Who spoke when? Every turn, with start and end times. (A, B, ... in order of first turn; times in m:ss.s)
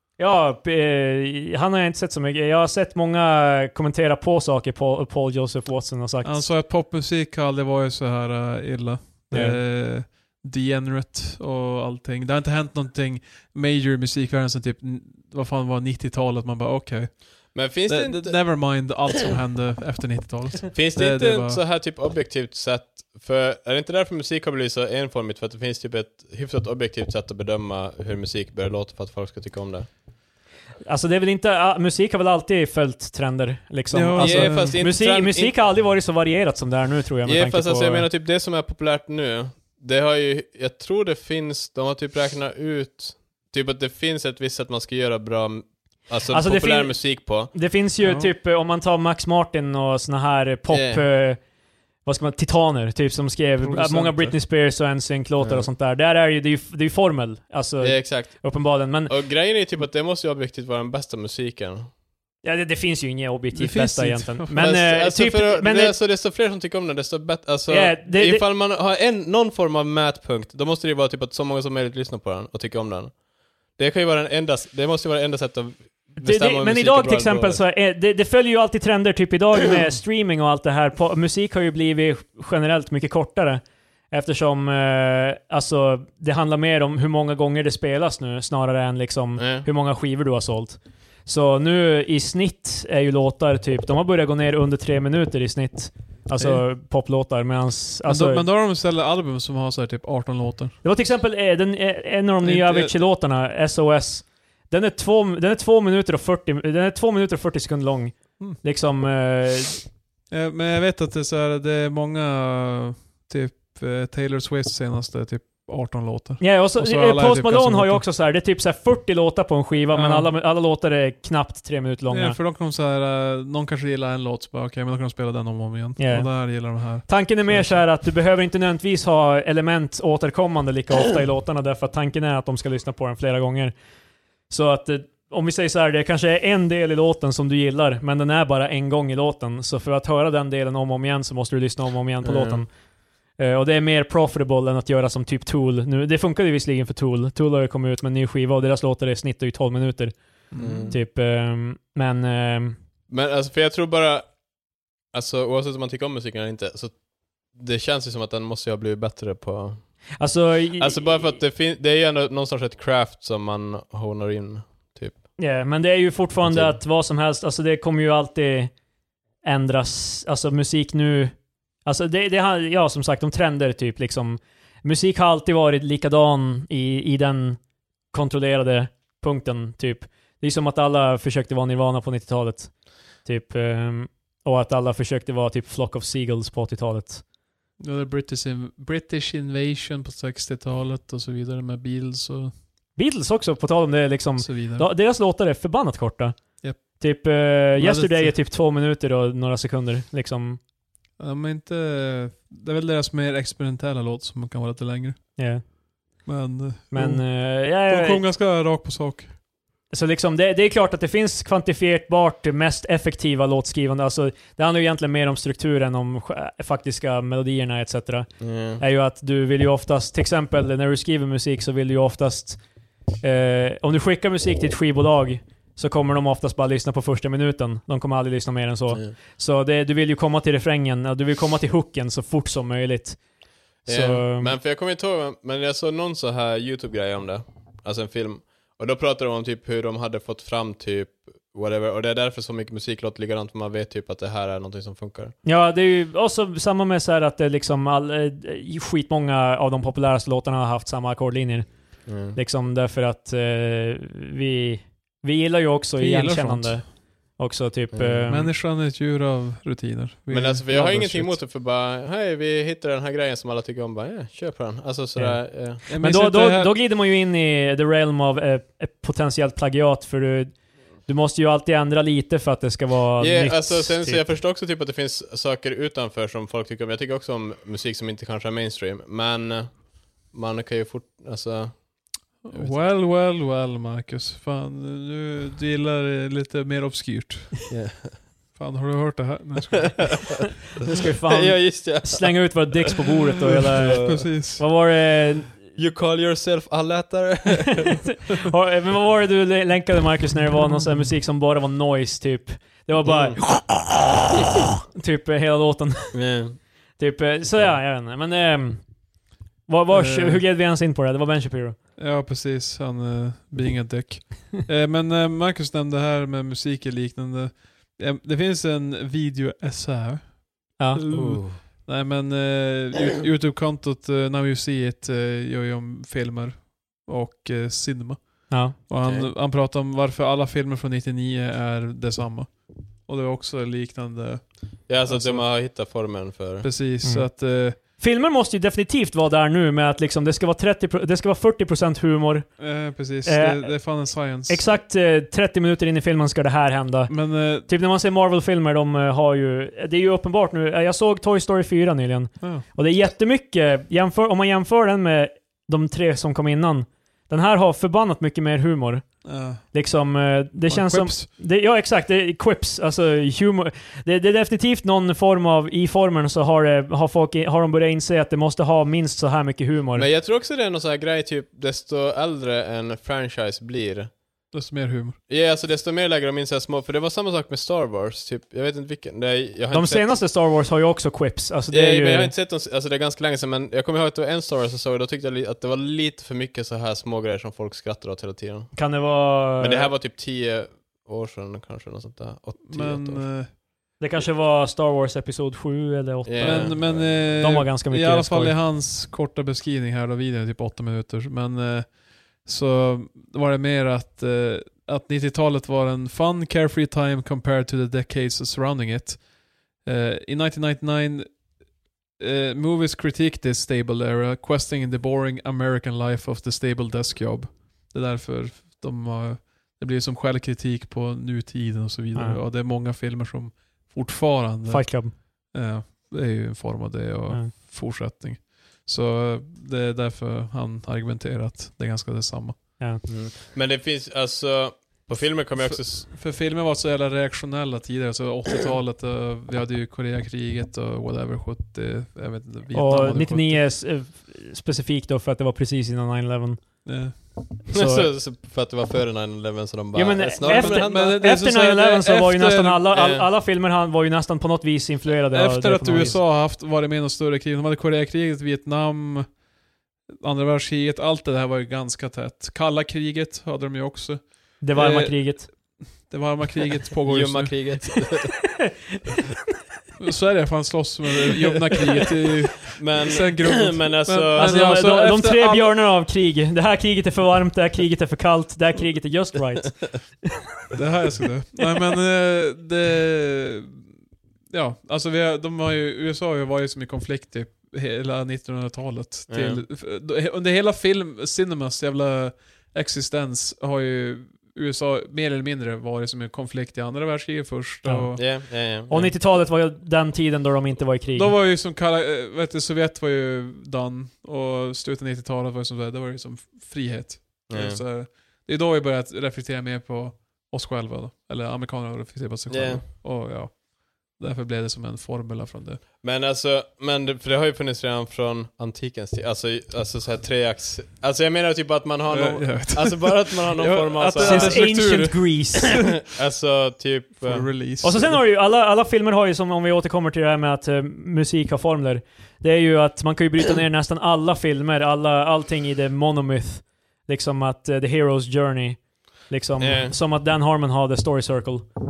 0:00.2-0:06.5 A
0:06.2-0:21.6 B
0:09.3-0:09.6 A
0:17.5-0:19.0 C
0:20.7-0:29.9 C
0:30.9-0:38.1 A
0:33.9-0:34.8 B
0:34.2-0:35.6 C
0:37.3-0:47.5 C
0:46.3-0:51.4 A
0:48.0-0:48.3 B
0:50.7-0:51.0 C
0:52.0-0:59.2 A
0:53.6-0:54.4 B
0:55.4-0:55.7 C
0:57.8-1:01.9 C
1:02.4-1:06.0 A
1:03.6-1:04.7 B
1:04.6-1:13.2 C
1:07.7-1:08.4 A
1:13.8-1:17.6 C
1:16.2-1:38.4 A
1:29.4-1:29.7 C
1:36.4-1:36.6 B
1:38.1-1:40.8 B
1:40.8-1:49.8 A
1:42.4-1:43.0 B
1:50.3-1:58.0 B
1:56.4-2:02.4 A
1:59.9-2:00.3 B
2:02.1-2:07.8 B
2:06.0-2:13.8 A
2:14.5-2:22.7 A
2:22.2-2:22.6 C
2:23.4-2:32.8 A
2:30.5-2:31.0 B
2:30.6-2:31.0 C
2:33.1-2:34.4 C
2:35.1-2:37.0 C
2:37.5-2:39.9 C
2:40.2-2:41.3 A
2:40.8-2:45.2 C
2:45.4-2:48.7 A
2:46.5-2:46.8 C
2:49.4-3:07.2 A
3:07.8-3:12.5 B
3:13.0-3:20.6 A
3:14.4-3:14.9 B
3:16.6-3:17.0 B
3:17.8-3:18.4 B
3:21.2-3:25.4 B
3:25.4-3:25.6 A
3:26.2-3:29.3 B
3:26.9-3:28.2 A
3:29.9-3:42.6 A
3:38.4-3:38.8 C
3:43.2-3:53.2 A
3:53.8-3:54.6 A
3:53.8-4:05.4 C
4:05.4-4:18.5 A
4:12.1-4:12.4 C
4:16.0-4:16.8 B
4:17.9-4:18.3 C
4:18.3-4:21.4 B
4:20.3-4:25.8 C
4:25.2-4:34.2 A
4:25.9-4:26.8 B
4:33.2-4:42.8 C
4:42.4-4:47.7 B
4:47.7-4:48.2 C
4:48.6-4:50.3 B
4:50.8-4:53.0 C
4:50.8-4:55.6 A
4:53.5-4:54.6 B
4:53.8-4:54.3 C
4:55.8-4:58.2 C
4:57.9-5:06.4 A
5:03.0-5:03.5 C
5:06.1-5:06.6 C
5:07.0-5:08.9 A
5:07.5-5:07.8 C
5:09.7-5:11.8 A
5:09.9-5:10.4 B
5:12.0-5:35.5 B
5:20.8-5:21.1 A
5:21.0-5:21.6 C
5:28.5-5:28.8 A
5:29.0-5:29.3 C
5:34.9-5:36.7 C
5:36.6-5:37.8 B
5:37.0-5:42.5 A
5:42.6-5:44.6 B
5:43.2-6:10.1 A
5:47.1-5:47.7 B
5:52.4-5:52.6 B
5:59.2-5:59.6 B
6:00.7-6:01.3 B
6:10.0-6:14.1 C
6:14.5-6:15.2 B
6:15.3-6:20.2 C
6:19.7-6:22.3 A
6:21.7-6:28.8 C
6:28.7-6:29.9 A
6:29.6-6:33.3 C
6:32.6-6:33.5 B
6:34.0-6:38.6 A
6:36.2-6:37.3 C
6:36.4-6:51.5 B
6:52.2-7:12.8 B
7:02.2-7:02.4 A
7:04.7-7:05.2 A
7:13.0-7:16.0 C
7:15.6-7:23.6 B
7:22.7-7:26.9 A
7:26.8-7:27.2 B
7:27.7-7:28.1 A
7:27.7-7:31.2 C
7:30.0-7:36.2 A
7:30.4-7:32.8 B
7:32.9-7:33.3 C
7:35.3-7:39.4 B
7:40.1-7:48.0 B
7:44.6-7:45.5 A
7:47.1-7:48.4 C
7:50.0-7:55.8 B
7:52.7-7:54.6 C
7:54.4-8:00.3 A
8:00.7-8:03.8 B
8:04.5-8:18.2 B
8:09.3-8:09.6 C
8:17.8-8:21.4 A
8:18.2-8:19.1 C
8:21.1-8:35.8 B
8:27.5-8:27.8 C
8:32.5-8:32.8 C
8:36.0-8:44.7 C
8:42.1-8:46.0 B
8:44.2-8:45.9 A
8:46.1-8:47.5 C
8:47.2-8:48.2 B
8:47.8-9:01.7 A
8:59.6-9:00.0 C